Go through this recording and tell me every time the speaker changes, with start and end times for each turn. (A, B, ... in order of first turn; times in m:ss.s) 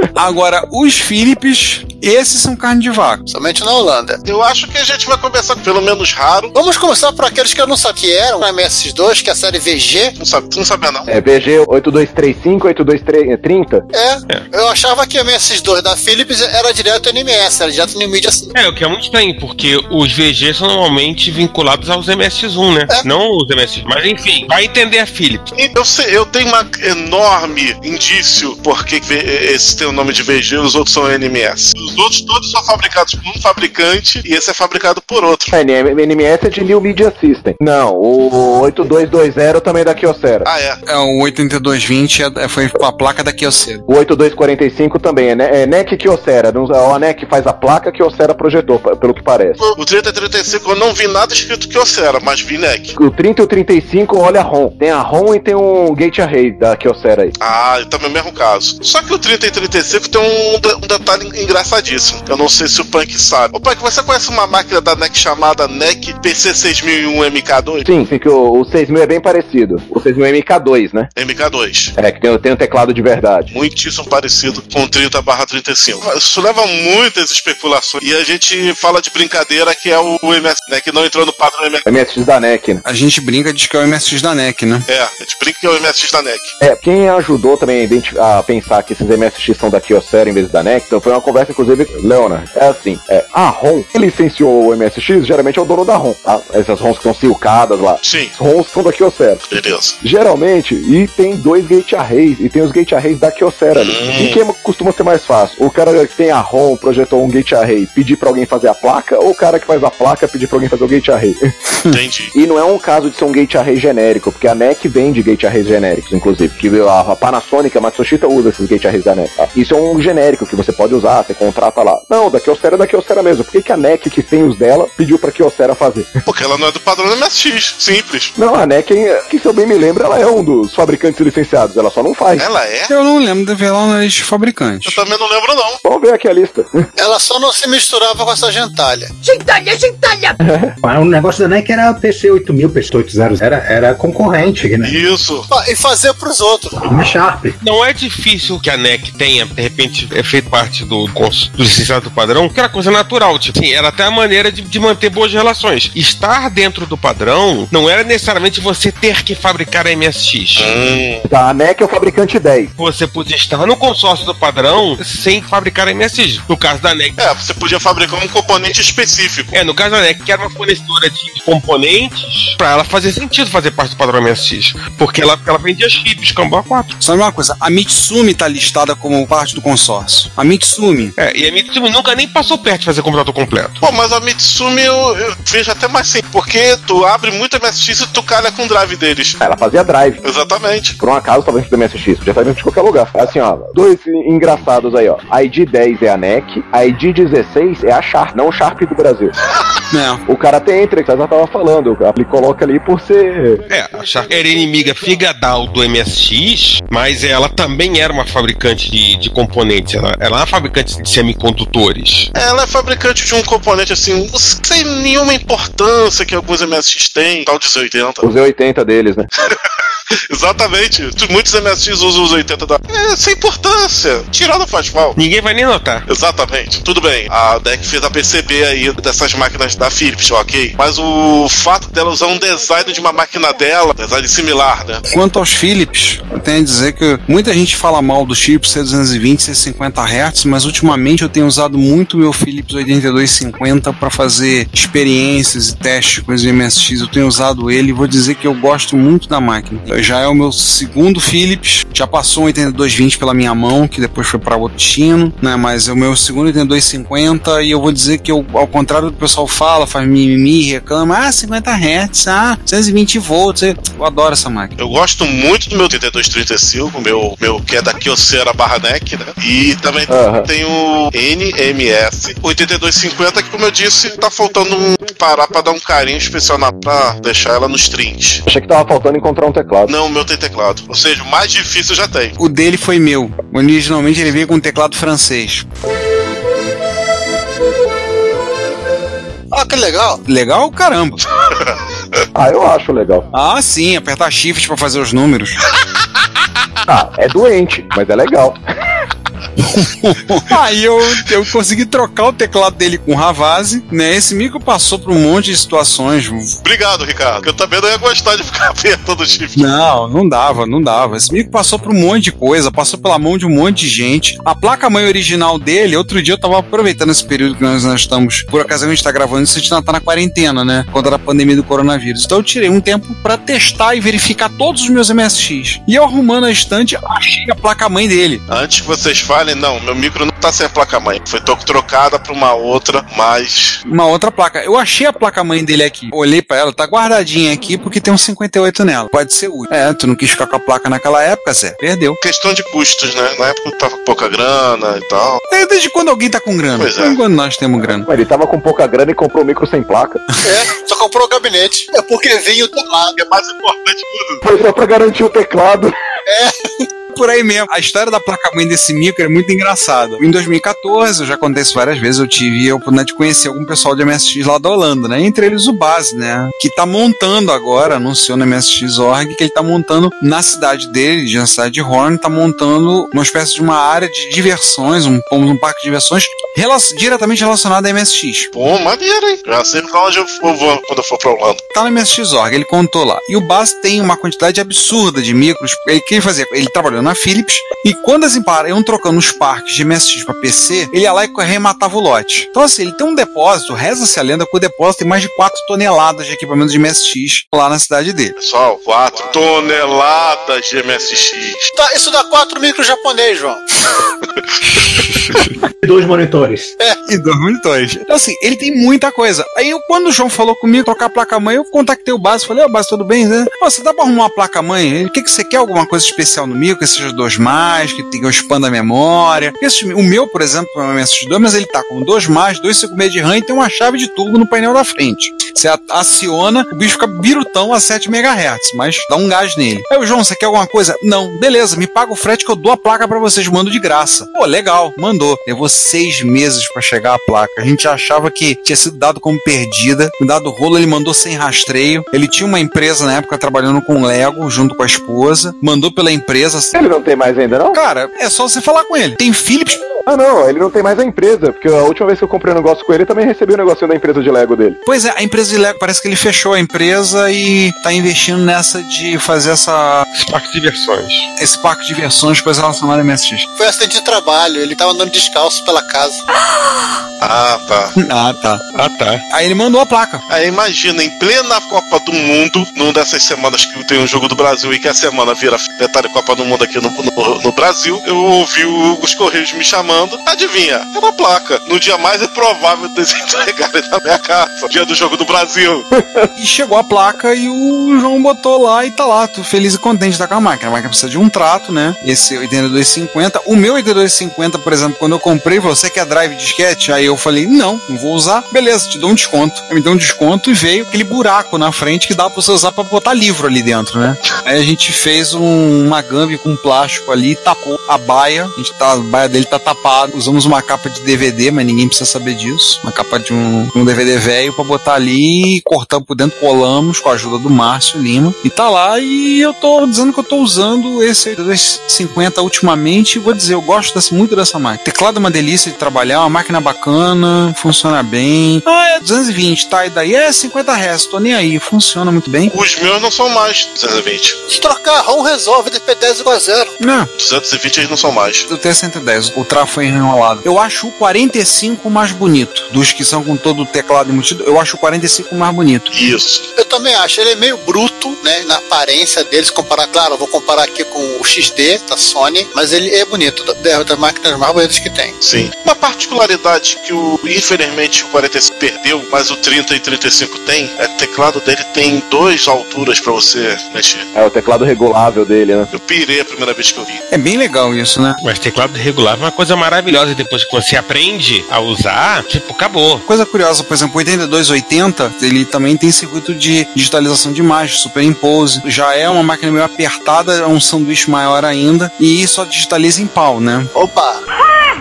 0:00.2-0:03.2 A
0:03.3-0:04.2 B
0:04.2-0:06.5 C
0:06.5-0:10.1 B
0:10.2-0:11.1 C
0:11.1-0:13.8 D
0:13.9-0:18.5 B
0:18.5-0:25.5 E
0:25.5-0:35.5 C
0:35.5-0:40.5 D
0:40.4-0:40.8 C
0:40.9-0:43.8 A
0:43.9-0:49.6 D
0:49.6-0:52.9 C
0:53.0-0:57.3 D
0:57.4-1:07.8 C
1:07.8-1:11.1 D
1:11.2-1:11.9 C
1:12.0-1:13.5 D
1:13.5-1:21.8 C
1:21.8-1:22.8 D
1:22.8-1:24.9 A
1:24.9-1:26.5 C
1:26.6-1:39.4 D
1:38.0-1:38.3 C
1:39.5-1:40.0 C
1:40.0-1:51.4 D
1:43.7-1:44.4 C
1:51.9-1:52.3 C
1:52.3-2:06.1 D
2:06.2-2:08.3 C
2:08.4-2:12.5 D
2:12.4-2:12.9 C
2:12.9-2:15.0 A
2:14.8-2:15.8 C
2:15.8-2:16.9 D
2:17.0-2:19.1 B
2:19.2-2:20.3 F
2:20.4-2:20.7 D
2:20.8-2:25.0 F
2:24.8-2:25.5 C
2:25.5-2:26.8 B
2:26.8-2:27.6 F
2:27.6-2:40.7 E
2:40.6-2:41.2 C
2:41.2-2:42.7 D
2:42.8-2:47.2 E
2:47.2-2:49.6 C
2:49.5-2:56.9 E
2:57.0-3:01.1 A
3:01.2-3:03.8 E
3:03.8-3:09.4 C
3:09.4-3:10.2 D
3:10.2-3:10.9 C
3:11.0-3:19.3 D
3:19.9-3:20.2 A
3:20.2-3:23.6 D
3:23.7-3:32.3 E
3:32.3-3:38.2 C
3:38.2-3:39.3 D
3:40.3-3:45.2 C
3:45.2-3:46.0 E
3:46.1-3:55.0 C
3:55.1-4:24.7 A
4:24.8-4:38.4 C
4:30.1-4:30.5 D
4:38.4-4:39.9 D
4:39.8-4:42.4 C
4:42.4-4:45.6 A
4:49.5-4:50.2 B
4:50.2-4:51.2 A
4:52.3-4:53.3 D
4:53.3-4:55.6 A
4:56.8-4:58.6 D
4:59.6-5:06.6 A
5:06.6-5:09.6 C
5:09.6-5:28.4 A
5:28.5-5:33.8 C
5:33.8-5:42.2 A
5:42.2-5:45.4 C
5:45.5-5:48.1 A
5:46.8-5:47.2 C
5:48.0-5:50.2 D
5:50.4-5:53.2 B
5:53.2-5:54.4 C
5:54.4-5:56.0 D
5:56.3-5:56.9 B
5:57.1-6:18.5 A
6:18.5-6:21.6 C
6:21.7-6:38.3 A
6:38.4-6:41.7 C
6:41.7-6:43.6 B
6:45.8-6:46.7 F
6:47.0-7:26.7 A
7:26.7-7:27.8 D
7:27.7-7:29.8 A
7:30.0-7:34.8 D
7:34.8-7:40.1 A
7:40.1-7:41.3 E
7:41.4-7:43.5 A
7:43.6-7:46.2 B
7:47.2-7:47.9 C
7:48.0-7:48.7 A
7:48.7-7:49.2 E
7:49.3-7:50.2 A
7:50.3-8:05.8 C
8:05.9-8:06.3 D
8:06.4-8:52.5 A
8:52.5-8:54.4 C
8:54.5-8:56.7 B
8:56.8-8:57.1 A
8:57.2-8:58.5 C
8:58.5-9:05.9 A
9:05.9-9:06.4 C
9:06.6-9:15.2 B
9:15.2-9:24.1 C
9:24.1-9:25.7 D
9:25.7-9:27.0 C
9:27.1-9:28.2 A
9:28.2-9:33.0 E
9:33.0-9:43.7 A
9:43.7-9:44.2 B